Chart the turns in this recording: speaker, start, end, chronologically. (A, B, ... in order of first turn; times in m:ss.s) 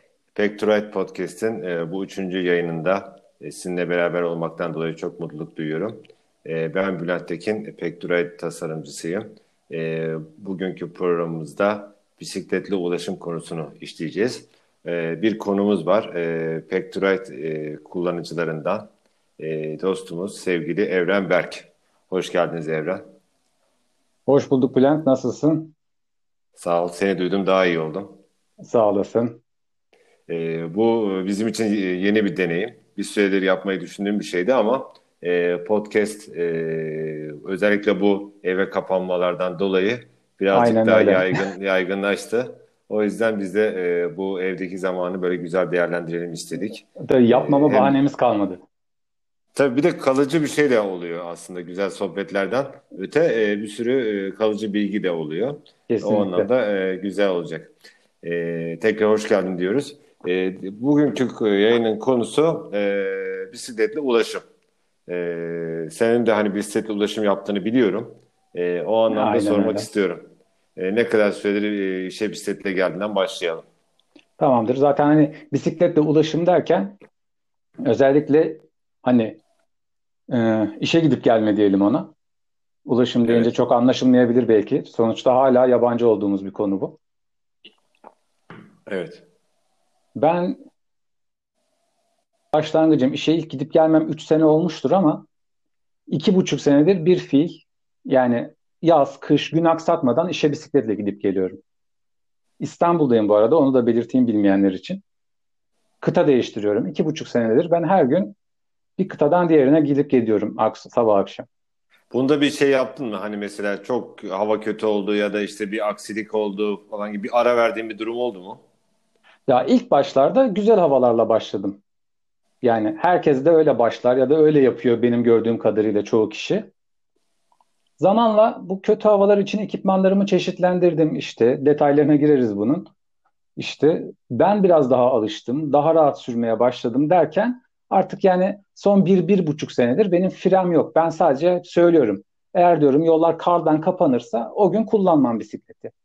0:00.3-0:23.0 A
0:24.3-0:25.7 B
0:26.6-0:28.2 A
0:28.6-0:29.4 B
0:30.3-0:48.0 A
0:40.5-0:41.4 B
0:47.0-0:48.6 B
0:49.5-1:04.4 A
0:55.9-0:56.5 B
1:05.1-1:13.6 A
1:09.1-1:09.9 B
1:14.4-1:17.0 B
1:17.8-1:19.4 B
1:20.3-1:22.1 B
1:22.8-1:27.0 B
1:28.9-1:29.2 A
1:30.1-1:30.6 B
1:32.5-1:35.3 B
1:36.1-1:41.6 B
1:42.6-1:45.0 B
1:46.0-1:48.4 B
1:49.0-1:51.5 B
1:52.1-1:58.6 A
1:59.5-2:01.8 B
2:02.6-2:06.7 B
2:08.0-2:12.9 B
2:13.6-2:25.9 B